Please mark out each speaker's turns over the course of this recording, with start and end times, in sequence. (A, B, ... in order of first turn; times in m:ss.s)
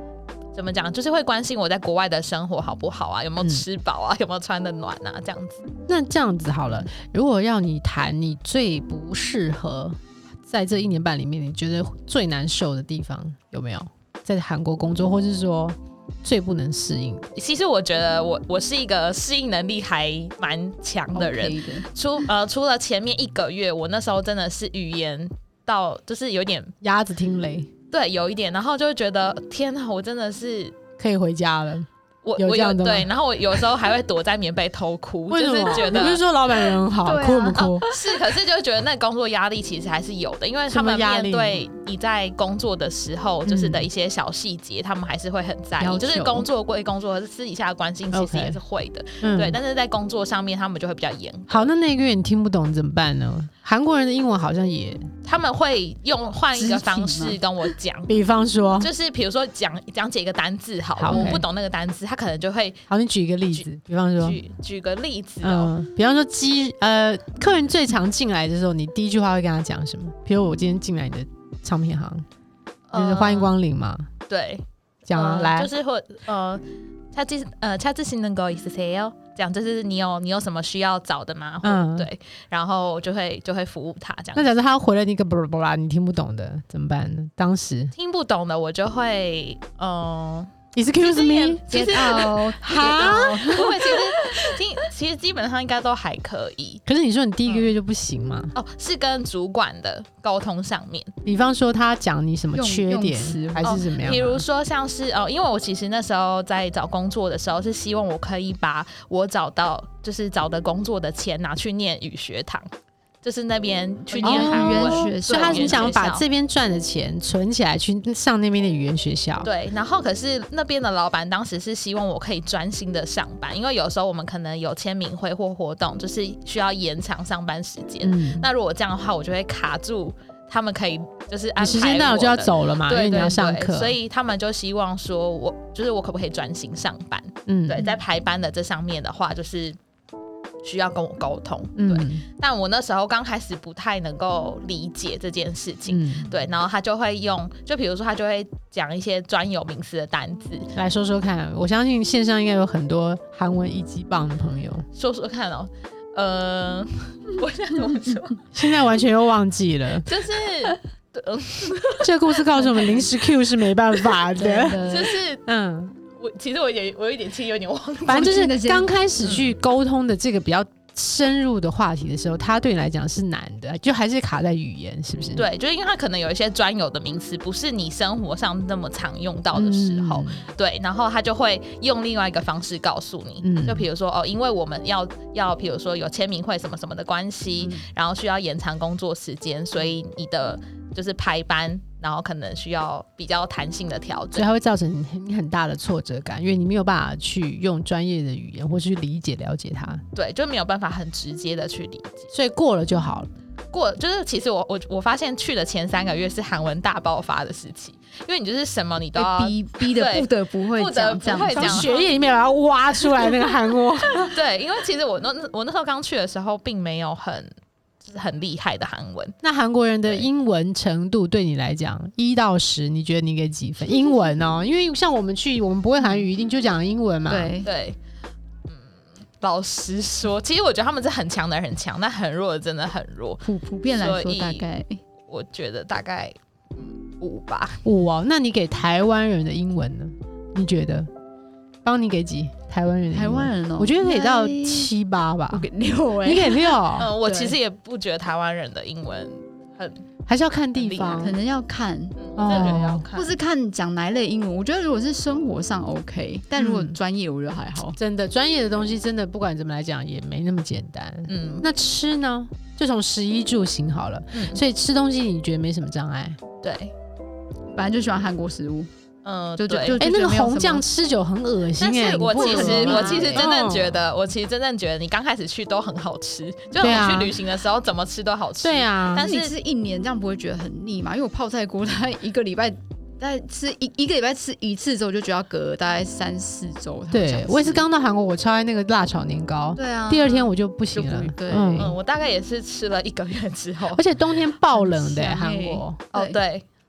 0:00.5-0:05.6 A
0:05.9-0:17.3 B
0:17.3-0:26.7 A
0:21.1-0:21.9 C
0:26.8-0:27.7 B
0:27.9-0:30.8 A
0:31.0-0:33.1 B
0:32.2-0:36.2 A
0:35.3-0:37.8 B
0:36.7-0:38.1 C
0:37.6-0:51.7 A
0:40.7-0:41.6 B
0:43.4-0:43.9 B
0:45.8-0:46.5 C
0:48.1-0:48.6 B
0:49.2-0:49.6 B
0:51.5-0:55.1 B
0:55.2-0:58.1 A
0:56.5-0:57.4 C
0:58.1-0:58.9 B
0:58.8-1:02.8 A
1:01.0-1:01.4 B
1:01.1-1:01.4 C
1:02.9-1:04.4 B
1:04.2-1:05.7 A
1:05.4-1:12.2 B
1:12.9-1:13.5 A
1:12.9-1:14.1 B
1:14.3-1:24.5 A
1:15.0-1:15.7 B
1:21.6-1:22.1 B
1:24.3-1:27.9 B
1:27.9-1:36.8 A
1:30.7-1:33.6 B
1:31.7-1:34.5 C
1:36.8-1:38.5 B
1:38.5-1:41.1 A
1:41.2-1:44.4 B
1:42.5-1:43.8 C
1:43.6-1:52.7 A
1:53.2-1:56.2 A
1:54.1-1:56.0 C
1:54.2-1:59.5 B
1:59.4-2:19.8 A
2:08.0-2:08.5 B
2:11.6-2:14.0 B
2:17.4-2:17.9 B
2:20.6-2:30.7 A
2:21.8-2:22.2 B
2:25.9-2:26.3 B
2:30.7-2:34.8 B
2:34.9-2:38.4 A
2:38.5-2:40.1 B
2:40.0-2:42.1 A
2:42.0-2:44.9 B
2:42.6-2:43.1 C
2:44.3-2:45.2 C
2:44.8-2:45.4 A
2:45.4-2:45.9 B
2:46.2-2:48.4 A
2:48.1-2:55.4 B
2:48.1-2:48.9 C
2:49.2-2:49.5 A
2:55.3-3:14.5 A
2:59.5-3:00.4 B
3:03.4-3:03.9 B
3:14.3-3:20.0 B
3:20.1-3:22.3 A
3:22.3-3:23.3 B
3:23.7-3:32.1 A
3:29.2-3:31.9 C
3:31.5-3:34.3 B
3:34.2-3:37.5 A
3:38.0-3:39.4 A
3:39.4-3:47.5 B
3:47.3-3:47.7 C
3:47.6-3:48.0 A
3:48.7-3:54.6 A
3:53.4-3:55.0 C
3:55.2-3:57.8 A
3:57.8-4:01.1 B
4:01.8-4:05.7 B
4:03.1-4:04.9 C
4:05.5-4:07.6 C
4:06.2-4:07.1 B
4:06.9-4:10.0 A
4:10.2-4:11.4 B
4:10.7-4:11.3 A
4:11.1-4:18.0 C
4:12.2-4:13.3 A
4:12.4-4:13.0 B
4:16.6-4:17.0 B
4:18.0-4:26.4 B
4:21.3-4:21.7 A
4:24.3-4:24.6 A
4:26.6-4:26.9 A
4:27.8-4:28.9 C
4:29.2-4:30.0 A
4:29.6-4:30.8 C
4:29.8-4:34.0 B
4:31.8-4:39.5 A
4:32.1-4:33.5 C
4:36.8-4:37.3 B
4:38.6-4:39.3 B
4:39.2-4:47.8 C
4:47.1-4:51.9 B
4:49.8-4:51.9 C
4:51.7-4:54.0 A
4:53.9-4:56.0 B
4:54.7-4:56.4 C
4:56.1-4:56.6 A